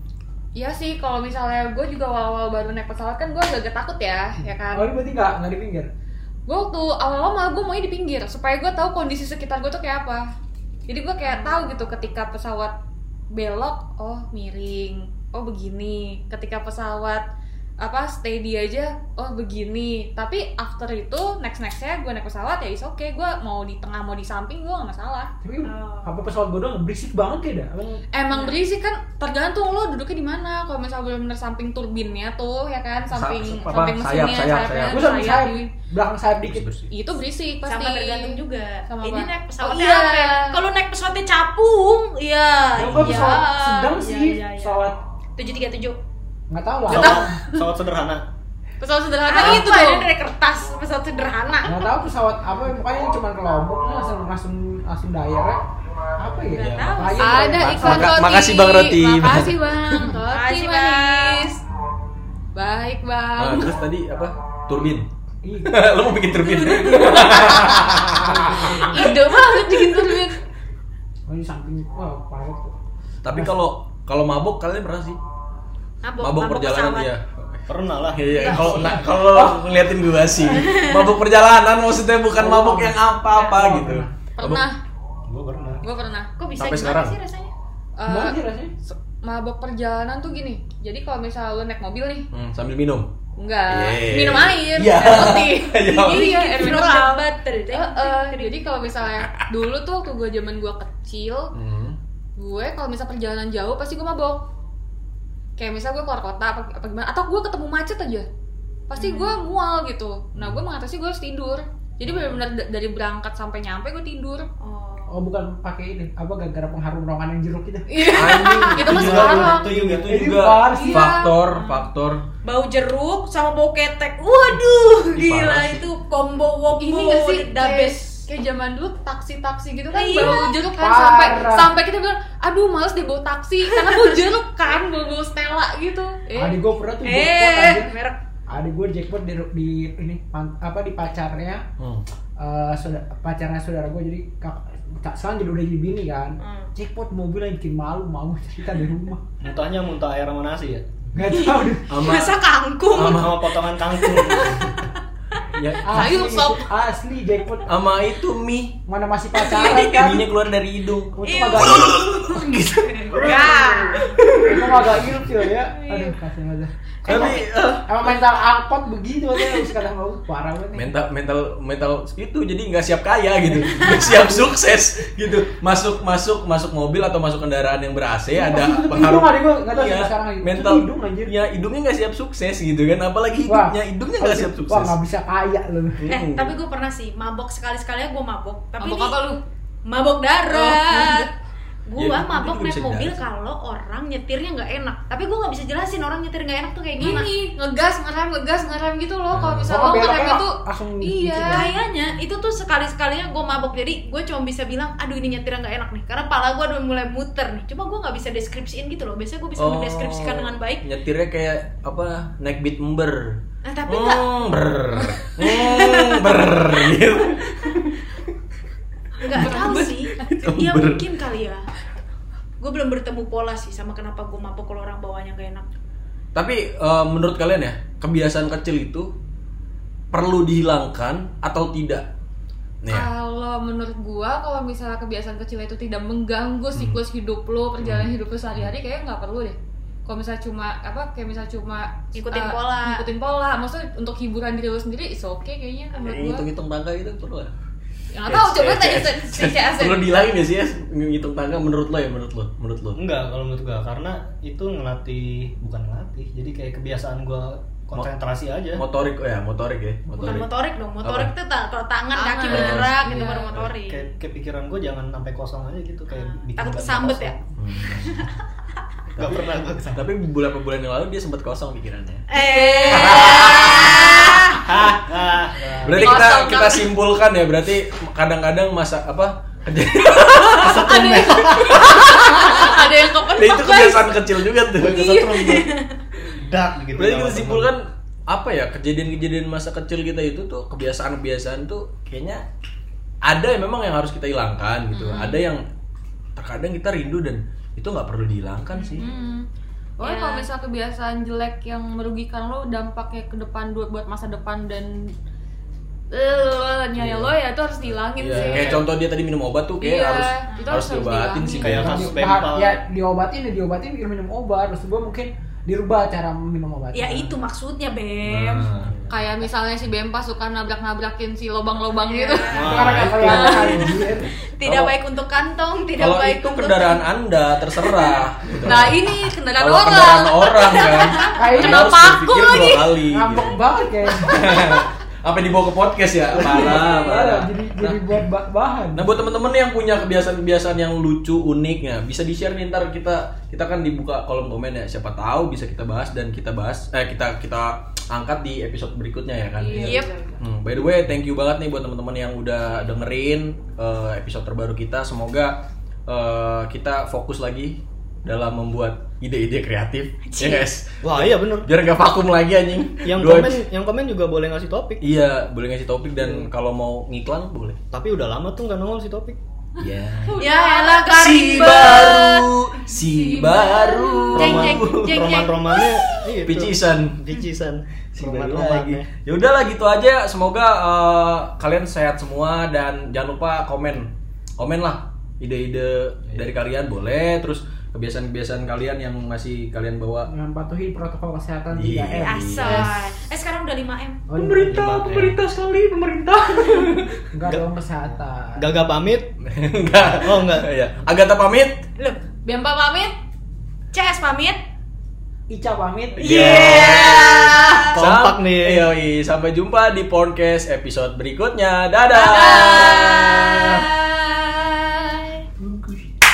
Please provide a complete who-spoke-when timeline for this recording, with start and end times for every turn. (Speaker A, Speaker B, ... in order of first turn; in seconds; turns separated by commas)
Speaker A: 0.6-4.9, Speaker B: 4.7-5.9, Speaker A: 6.5-10.3, Speaker A: 10.9-12.7, Speaker C: 11.2-11.6, Speaker A: 13.3-17.2, Speaker A: 17.8-25.3, Speaker B: 25.4-28.0, Speaker C: 25.6-26.2, Speaker A: 28.1-35.7, Speaker C: 28.3-28.6, Speaker D: 33.1-35.1, Speaker B: 34.9-36.7, Speaker D: 36.5-36.9, Speaker A: 36.9-40.5, Speaker C: 37.6-44.8, Speaker B: 42.8-45.0, Speaker D: 42.8-43.3, Speaker C: 45.4-46.0, Speaker B: 46.5-47.4, Speaker E: 46.9-48.2, Speaker A: 46.9-47.7, Speaker A: 48.8-50.1, Speaker C: 49.3-51.9, Speaker B: 51.6-55.6, Speaker B: 56.2-58.2, Speaker C: 56.5-57.6, Speaker E: 56.5-57.0, Speaker A: 57.2-61.6, Speaker D: 57.6-60.2, Speaker C: 60.3-61.5, Speaker A: 62.5-63.7, Speaker D: 63.4-65.1, Speaker B: 65.4-65.8, Speaker D: 65.7-69.1, Speaker A: 66.4-68.0, Speaker C: 66.8-67.1, Speaker B: 68.1-69.1, Speaker A: 68.6-70.4, Speaker B: 71.3-72.8, Speaker D: 73.2-75.2, Speaker C: 76.0-77.1, Speaker D: 76.2-84.7, Speaker E: 77.7-78.3, Speaker B: 78.3-79.7, Speaker C: 78.3-79.0, Speaker C: 80.5-81.1, Speaker B: 82.4-84.1, Speaker C: 83.3-83.6, Speaker A: 84.4-84.8, Speaker E: 85.3-85.8, Speaker A: 85.8-86.3, Speaker C: 86.4-87.5, Speaker D: 86.6-87.2, Speaker A: 88.0-92.3, Speaker B: 88.1-88.7, Speaker D: 92.3-93.1, Speaker A: 93.4-101.5, Speaker D: 93.7-96.3, Speaker C: 95.9-98.7, Speaker D: 101.5-102.0, Speaker A: 102.4-104.4, Speaker A: 105.6-108.3, Speaker A: 108.9-114.5, Speaker C: 109.0-109.4, Speaker D: 110.3-110.6, Speaker D: 112.0-112.4, Speaker C: 114.6-115.2, Speaker B: 115.1-119.4, Speaker A: 117.9-119.7, Speaker D: 118.1-122.2, Speaker C: 118.3-118.8, Speaker E: 118.7-120.1, Speaker B: 120.0-121.2, Speaker A: 120.7-121.3, Speaker C: 121.5-121.9, Speaker C: 122.4-128.2, Speaker D: 125.2-125.8, Speaker A: 126.8-136.6, Speaker C: 129.9-130.6, Speaker B: 130.2-131.7, Speaker C: 133.8-134.1, Speaker B: 136.4-137.9, Speaker C: 137.0-138.2, Speaker B: 138.5-141.6, Speaker D: 141.8-142.1, Speaker B: 142.4-149.2, Speaker C: 146.4-146.7, Speaker E: 149.4-150.9, Speaker B: 151.1-151.9, Speaker C: 151.2-154.9, Speaker D: 151.9-152.4, Speaker D: 152.9-153.4, Speaker E: 153.0-154.8, Speaker D: 155.5-156.2, Speaker B: 155.8-157.8, Speaker A: 155.9-156.7, Speaker D: 157.7-158.8, Speaker B: 158.9-160.3, Speaker C: 159.3-160.0, Speaker D: 159.5-165.5, Speaker B: 161.2-162.0, Speaker C: 161.2-162.0, Speaker C: 162.8-164.2, Speaker B: 163.1-170.9, Speaker C: 165.7-166.2, Speaker C: 167.1-167.4, Speaker D: 167.1-168.2, Speaker D: 170.7-185.0, Speaker C: 173.8-174.1, Speaker B: 178.3-181.3, Speaker B: 183.5-186.0, Speaker D: 186.0-186.6, Speaker C: 186.1-189.2, Speaker A: 188.8-189.4, Speaker C: 189.9-191.3, Speaker D: 190.6-191.2, Speaker C: 191.9-197.3, Speaker D: 192.0-193.2, Speaker A: 197.0-201.7, Speaker D: 199.3-200.0, Speaker B: 199.7-201.7, Speaker C: 201.5-210.8, Speaker D: 209.6-218.0, Speaker C: 213.7-214.3, Speaker C: 215.2-217.0, Speaker A: 219.2-220.3, Speaker C: 219.2-221.7, Speaker D: 220.2-221.1, Speaker C: 222.6-225.7, Speaker D: 226.3-229.1, Speaker D: 230.1-232.1, Speaker D: 232.8-233.1, Speaker A: 232.9-246.4, Speaker D: 236.8-237.0, Speaker D: 237.8-238.7, Speaker C: 242.2-243.0, Speaker D: 246.0-247.5, Speaker A: 248.1-250.5, Speaker D: 248.3-253.0, Speaker E: 253.0-258.8, Speaker D: 258.8-260.5, Speaker C: 260.2-264.1, Speaker D: 261.0-261.3, Speaker A: 262.1-263.6, Speaker D: 262.5-263.7, Speaker E: 263.9-267.4, Speaker C: 266.1-267.4, Speaker D: 267.6-268.3, Speaker C: 267.9-268.4, Speaker D: 269.2-272.2, Speaker E: 269.2-270.0, Speaker C: 272.3-274.6, Speaker A: 272.3-274.3, Speaker D: 272.9-274.2, Speaker E: 274.5-276.3, Speaker D: 275.8-281.0, Speaker A: 275.9-276.9, Speaker E: 280.6-281.9, Speaker A: 280.6-285.7, Speaker D: 281.6-282.7, Speaker D: 283.3-285.0, Speaker E: 284.7-285.8, Speaker C: 285.4-286.0, Speaker E: 286.3-287.7, Speaker D: 286.9-292.4, Speaker D: 293.2-295.6, Speaker A: 294.9-295.4, Speaker D: 296.4-299.1, Speaker C: 298.7-299.4, Speaker A: 299.0-299.5, Speaker A: 300.0-305.1, Speaker C: 300.0-300.5, Speaker A: 306.1-308.8, Speaker D: 307.0-307.3, Speaker D: 307.9-312.1, Speaker E: 308.3-308.8, Speaker A: 309.8-312.1, Speaker C: 310.5-310.9, Speaker E: 311.6-312.8, Speaker B: 311.8-317.4, Speaker C: 316.9-318.7, Speaker D: 318.3-319.2, Speaker E: 318.5-318.9, Speaker A: 319.1-322.6, Speaker C: 322.0-327.0, Speaker E: 322.5-323.9, Speaker B: 322.6-324.3, Speaker A: 323.2-323.7, Speaker D: 324.6-324.9, Speaker D: 326.0-329.0, Speaker A: 328.6-332.9, Speaker D: 329.6-333.6, Speaker C: 330.7-331.6, Speaker B: 331.4-331.9, Speaker B: 333.1-334.6, Speaker D: 334.2-338.1, Speaker B: 336.3-339.1, Speaker D: 338.9-363.6, Speaker A: 349.6-350.4, Speaker C: 349.7-350.2, Speaker C: 360.3-360.7, Speaker E: 361.0-361.7, Speaker E: 363.1-365.0, Speaker D: 365.0-367.8, Speaker E: 366.2-366.5, Speaker E: 367.9-369.4, Speaker D: 369.8-370.4, Speaker A: 370.2-372.0, Speaker C: 370.4-372.5, Speaker D: 371.1-375.3, Speaker A: 372.9-374.6, Speaker C: 374.4-376.2, Speaker E: 374.4-379.1, Speaker D: 376.4-377.2, Speaker D: 378.1-390.3, Speaker B: 390.3-392.5, Speaker D: 391.7-392.9, Speaker C: 392.2-394.2, Speaker B: 394.3-394.9, Speaker D: 394.4-397.2, Speaker E: 394.6-395.4, Speaker B: 397.3-398.7, Speaker E: 398.6-399.3, Speaker D: 399.4-401.9, Speaker E: 400.1-400.7, Speaker A: 402.4-403.2, Speaker C: 403.9-404.6, Speaker B: 405.5-406.9, Speaker C: 406.2-407.9, Speaker D: 406.2-413.9, Speaker E: 406.2-406.9, Speaker E: 407.9-408.9, Speaker C: 412.1-415.5, Speaker D: 415.6-415.9